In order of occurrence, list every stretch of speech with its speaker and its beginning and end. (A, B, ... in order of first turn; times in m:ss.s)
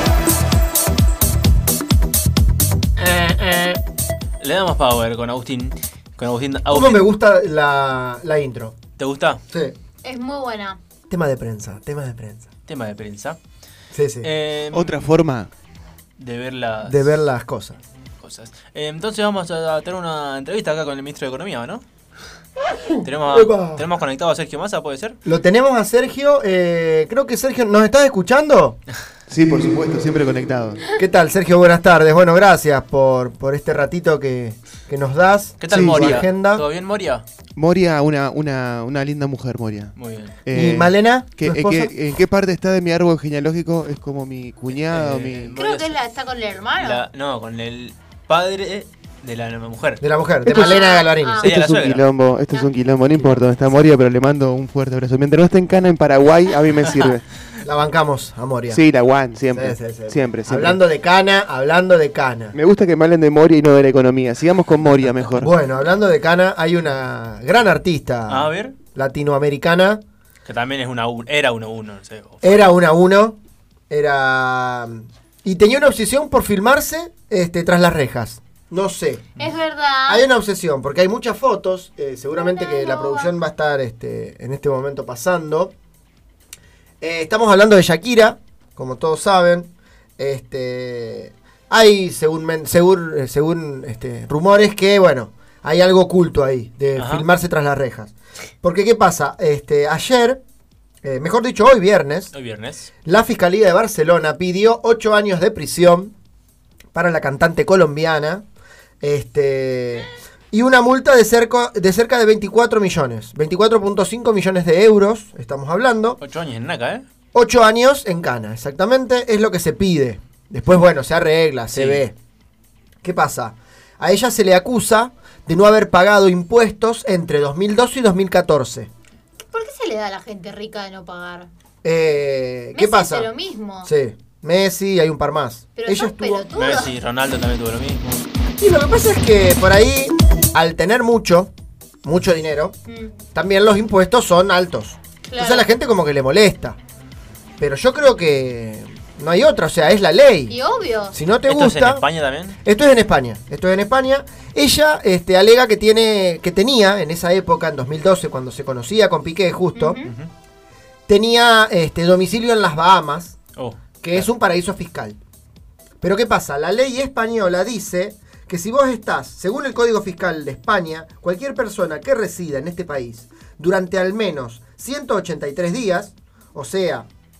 0:03.0-0:03.8 A
0:04.4-0:07.1 B
0:06.7-0:08.8 A
0:09.0-0:09.4 B
0:09.5-0:09.8 A
0:10.0-0:10.8 C
0:11.1-0:12.5 A
0:12.7-0:13.4 B
0:13.9-0:14.3 A
0:14.2-0:15.1 B
0:14.7-0:15.5 D
0:16.2-0:17.2 B
0:16.8-0:17.8 A
0:18.2-0:21.8 B
0:22.8-0:23.8 A
0:23.0-0:25.2 B
0:25.2-0:28.8 A
0:29.3-0:30.8 D
0:31.0-0:36.6 A
0:35.6-0:37.2 B
0:35.7-0:36.2 D
0:37.6-0:39.9 D
0:40.0-0:40.4 B
0:40.4-0:45.6 D
0:40.5-0:41.9 A
0:44.8-0:46.0 B
0:45.6-0:47.0 C
0:46.8-0:50.0 B
0:50.0-0:51.5 A
0:50.5-0:51.5 C
0:50.5-0:50.8 D
0:51.4-0:52.0 B
0:51.4-0:57.2 D
0:52.5-0:53.8 C
0:57.6-0:58.8 A
0:58.7-1:00.8 D
0:59.5-1:02.5 A
1:02.5-1:05.5 D
1:05.4-1:10.0 A
1:08.3-1:08.8 B
1:10.4-1:12.7 B
1:12.4-1:13.4 A
1:13.9-1:19.2 A
1:19.4-1:20.2 C
1:20.1-1:25.7 A
1:22.4-1:23.3 C
1:27.0-1:40.4 A
1:37.0-1:37.3 B
1:41.0-1:42.3 A
1:42.3-1:42.9 B
1:43.0-1:46.1 A
1:46.9-1:48.4 A
1:49.0-1:56.2 A
1:56.2-1:57.0 B
1:57.3-2:02.1 A
2:01.7-2:02.1 B
2:03.0-2:08.9 A
2:09.5-2:11.5 C
2:11.8-2:13.3 A
2:12.7-2:13.9 C
2:13.8-2:16.5 A
2:15.8-2:16.9 C
2:16.6-2:18.3 B
2:18.6-2:21.5 A
2:22.0-2:22.8 A
2:22.9-2:23.1 C
2:23.3-2:26.8 A
2:25.2-2:25.7 C
2:27.6-2:30.6 A
2:30.5-2:31.2 C
2:31.1-2:32.0 A
2:31.5-2:32.6 B
2:32.6-2:40.0 A
2:39.8-2:40.1 C
2:40.0-2:40.3 B
2:41.1-2:43.4 A
2:43.6-2:44.3 B
2:44.0-2:45.2 A
2:46.0-2:57.1 A